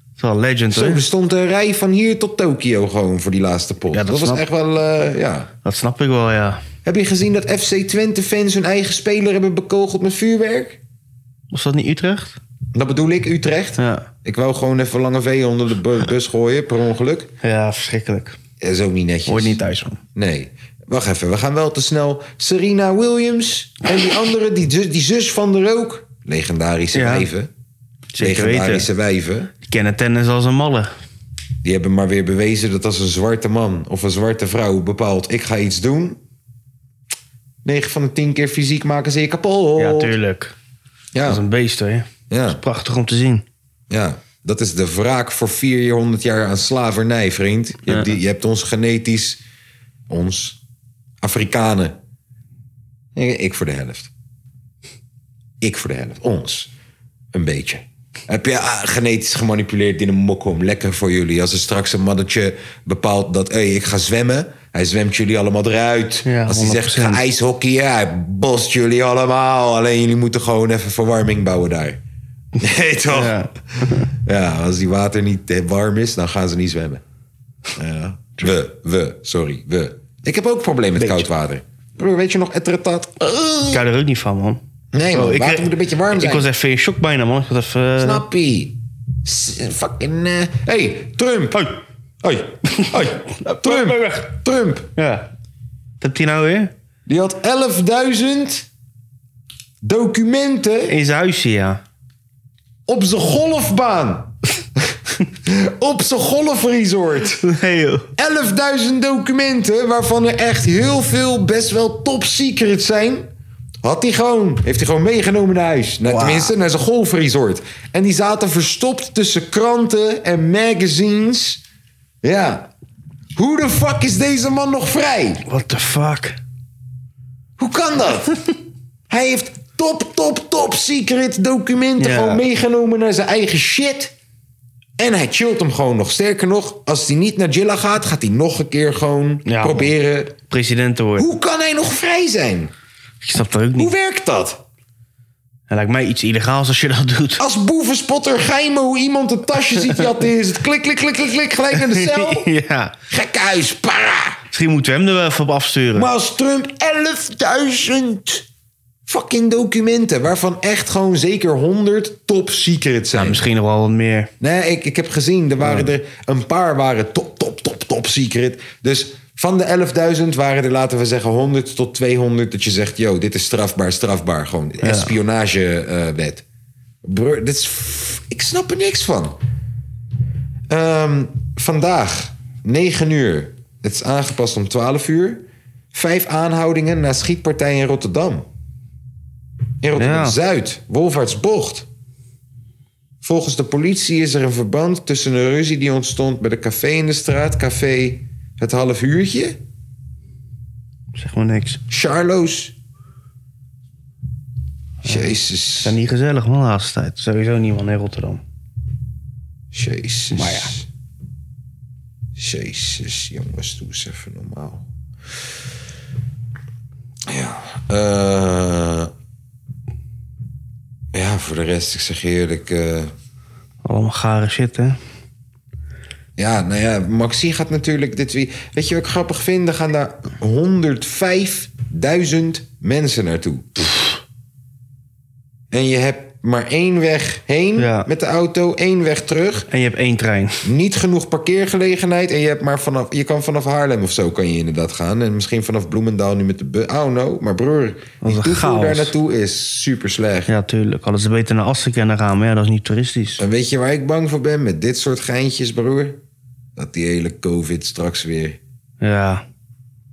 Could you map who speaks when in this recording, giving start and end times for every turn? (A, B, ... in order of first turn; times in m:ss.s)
0:00.2-0:01.0 A
0:00.7-0:05.5 B
0:03.9-0:04.4 A
0:05.6-0:06.6 A
0:06.8-0:10.8 B
0:11.5-0:12.4 A
0:12.7-0:17.3 B
0:13.8-0:14.1 A
0:17.4-0:18.4 A
0:18.6-0:19.6 B
0:19.3-0:20.0 A
0:20.2-0:27.5 B
0:26.9-0:27.3 A
0:28.1-0:28.9 A
0:28.2-0:29.5 B
0:29.6-0:30.9 A
0:31.6-0:36.2 B
0:37.6-0:40.2 B
0:39.8-0:40.6 A
0:41.1-0:41.4 B
0:41.2-0:43.4 A
0:42.3-0:42.6 B
0:43.9-0:49.4 B
0:47.9-0:48.1 A
0:50.1-0:50.6 B
0:51.2-0:52.0 B
0:53.2-0:54.1 B
0:55.6-0:56.7 B
0:57.3-1:12.0 B
1:06.3-1:07.2 A
1:12.6-1:13.4 B
1:13.1-1:14.1 A
1:14.1-1:17.0 B
1:17.8-1:23.8 B
1:21.0-1:21.3 A
1:23.7-1:28.2 A
1:24.9-1:26.5 B
1:28.0-1:31.7 B
1:31.5-1:31.8 A
1:32.2-1:34.9 B
1:32.8-1:34.3 A
1:35.0-1:35.3 A
1:36.0-1:36.7 A
1:37.1-1:38.7 B
1:39.8-1:41.0 B
1:40.9-1:41.8 A
1:42.9-1:44.3 B
1:45.3-1:47.4 B
1:47.4-1:48.1 A
1:48.2-1:53.3 B
1:53.8-2:01.6 B
1:56.0-1:56.5 A
2:02.2-2:02.7 B
2:03.4-2:05.4 B
2:05.5-2:06.4 A
2:07.6-2:08.4 B
2:09.1-2:14.1 B
2:12.0-2:12.4 A
2:15.0-2:20.4 B
2:19.5-2:19.9 A
2:20.5-2:21.3 A
2:21.2-2:22.7 B
2:23.2-2:23.9 A
2:23.8-2:24.6 B
2:25.7-2:27.4 A
2:27.4-2:32.5 B
2:31.7-2:33.0 A
2:33.1-2:34.4 B
2:34.5-2:36.1 A
2:36.0-2:38.5 B
2:39.1-2:43.4 B
2:43.1-2:44.3 A
2:44.4-2:56.4 B
2:54.8-2:55.2 A
2:57.0-2:59.4 B
3:00.7-3:08.5 B
3:09.8-3:11.9 B
3:10.0-3:10.4 A
3:13.2-3:19.6 B
3:21.2-3:21.8 A
3:21.9-3:22.7 B
3:25.0-3:26.0 B
3:25.0-3:28.4 A
3:29.7-3:30.9 B
3:30.3-3:30.7 A
3:32.4-3:34.9 B
3:37.3-3:39.1 B
3:41.1-3:43.1 B
3:43.8-3:45.0 A
3:46.4-3:53.9 B
3:55.7-3:59.7 B
3:57.8-3:58.1 A
3:59.7-4:00.7 A
4:00.6-4:10.5 B
4:08.2-4:09.1 A
4:10.5-4:13.4 A
4:13.4-4:16.2 B
4:16.8-4:18.6 B
4:19.0-4:19.4 A